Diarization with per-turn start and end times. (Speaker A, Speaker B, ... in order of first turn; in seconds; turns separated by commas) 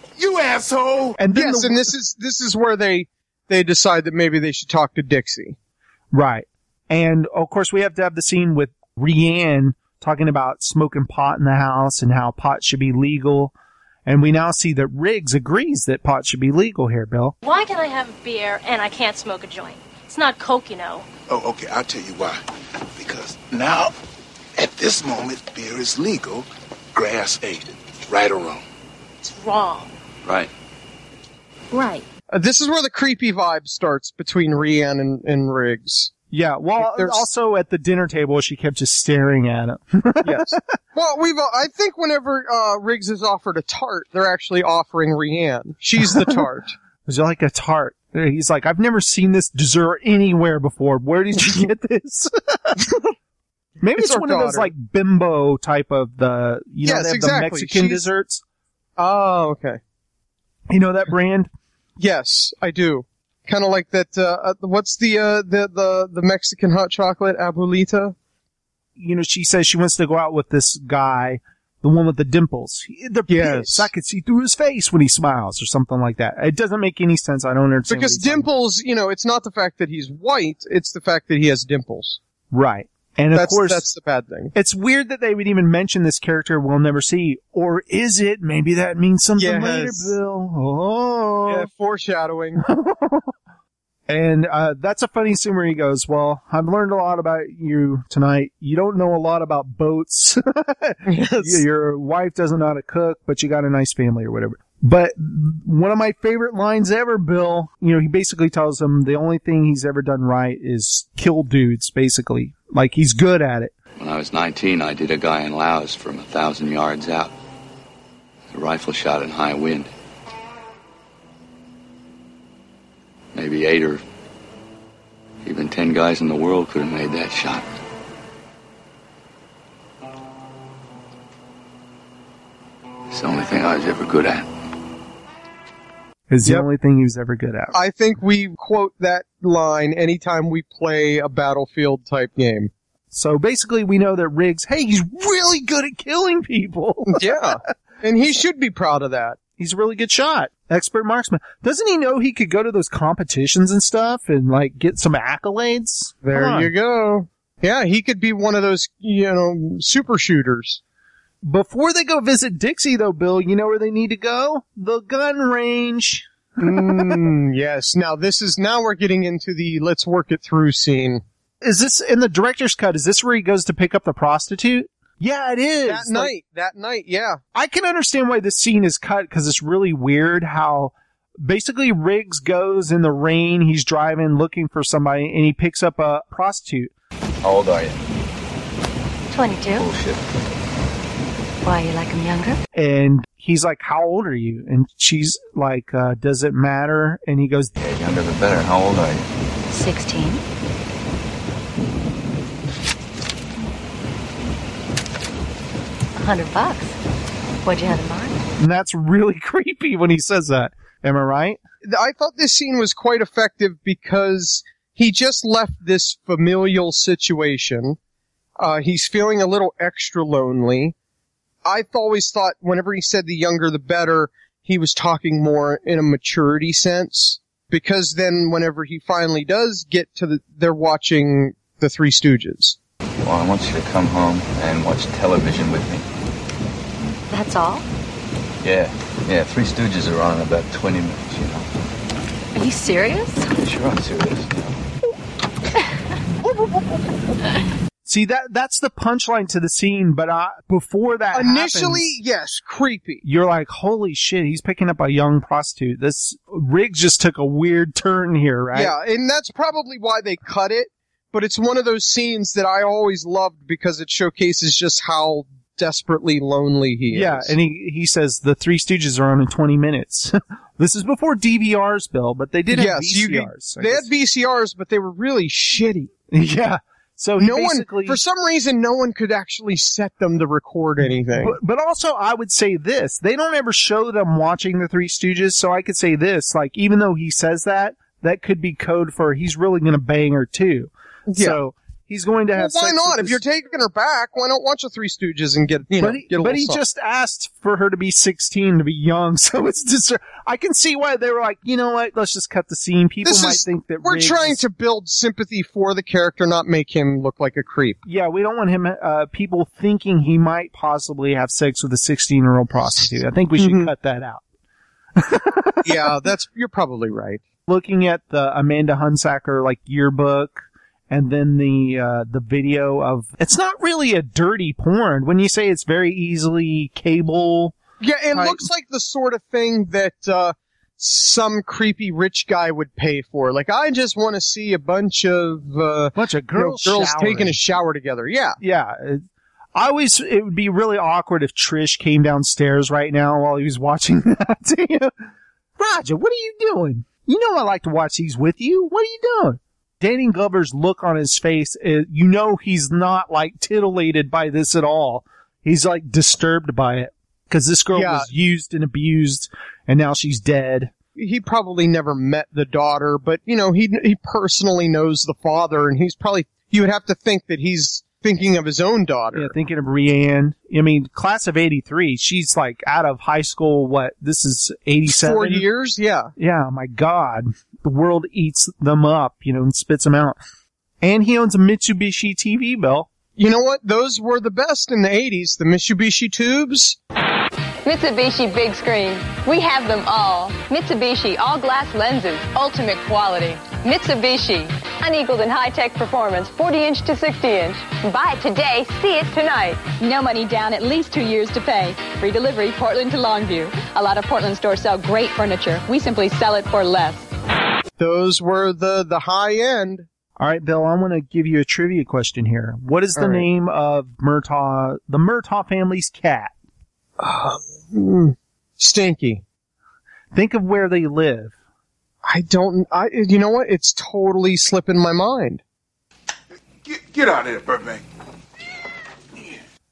Speaker A: 0.1-1.2, Speaker B: 1.2-1.9, Speaker C: 1.3-5.5, Speaker B: 6.1-13.5, Speaker B: 14.1-17.3, Speaker A: 21.3-22.4, Speaker A: 22.9-23.9, Speaker A: 24.6-28.6, Speaker C: 32.3-36.1, Speaker B: 36.3-40.6, Speaker C: 36.8-37.2, Speaker C: 40.2-46.7, Speaker B: 46.0-46.4, Speaker B: 47.0-52.9, Speaker B: 53.8-58.4, Speaker C: 54.0-54.7, Speaker C: 56.8-58.0, Speaker C: 59.0-59.8, Speaker B: 60.7-61.5, Speaker C: 62.0-68.1, Speaker B: 69.0-78.5, Speaker C: 73.3-73.9, Speaker C: 77.9-82.2, Speaker B: 82.5-83.8, Speaker C: 83.3-84.5, Speaker B: 84.5-91.7, Speaker C: 89.4-90.1, Speaker C: 91.5-92.6, Speaker B: 92.6-93.3, Speaker B: 94.1-113.7, Speaker C: 101.0-101.6, Speaker D: 114.0-117.3, Speaker D: 118.5-119.9, Speaker D: 123.3-124.0, Speaker D: 125.4-127.7, Speaker D: 133.1-134.5, Speaker B: 136.3-137.8, Speaker C: 137.7-142.7, Speaker B: 143.1-147.2, Speaker C: 147.1-149.4, Speaker B: 149.6-156.7, Speaker C: 156.2-160.8, Speaker B: 161.4-167.2, Speaker C: 166.6-171.2, Speaker B: 171.6-176.3, Speaker C: 175.9-177.4, Speaker B: 177.5-186.9, Speaker D: 187.4-188.1, Speaker E: 189.3-189.8, Speaker D: 189.7-190.2, Speaker E: 191.6-192.6, Speaker B: 192.7-197.7, Speaker D: 197.8-199.3, Speaker E: 199.7-200.4, Speaker E: 206.2-206.9, Speaker E: 207.6-208.4, Speaker B: 208.6-211.6, Speaker C: 211.8-218.0, Speaker C: 218.6-220.9, Speaker C: 221.6-232.8, Speaker D: 233.2-236.1, Speaker E: 237.3-237.8, Speaker D: 238.6-241.7, Speaker E: 242.5-243.4, Speaker D: 243.5-244.8, Speaker B: 248.0-252.1, Speaker C: 251.3-253.2, Speaker B: 253.2-258.9, Speaker C: 258.7-267.5, Speaker B: 267.1-274.1, Speaker C: 272.7-276.1, Speaker B: 276.3-278.2, Speaker C: 277.4-281.6, Speaker B: 281.4-293.4, Speaker C: 291.3-291.6, Speaker C: 292.6-296.8, Speaker B: 296.0-304.6, Speaker C: 303.2-308.0, Speaker B: 308.0-314.4, Speaker C: 313.6-313.9, Speaker B: 315.1-316.0, Speaker C: 315.8-317.4, Speaker B: 317.7-327.8, Speaker C: 328.0-338.6, Speaker B: 328.3-328.7, Speaker B: 336.1-337.7, Speaker B: 338.6-345.1, Speaker B: 345.8-360.9, Speaker C: 357.9-358.3, Speaker C: 361.1-369.5, Speaker B: 369.3-375.6, Speaker C: 375.1-376.3, Speaker B: 376.4-380.4, Speaker B: 381.0-383.1, Speaker C: 383.4-387.0, Speaker F: 387.8-407.3, Speaker C: 408.0-410.1, Speaker B: 410.4-416.5, Speaker C: 413.1-413.4, Speaker C: 417.2-419.4, Speaker B: 420.3-421.5, Speaker C: 422.2-425.6, Speaker A: 426.8-428.0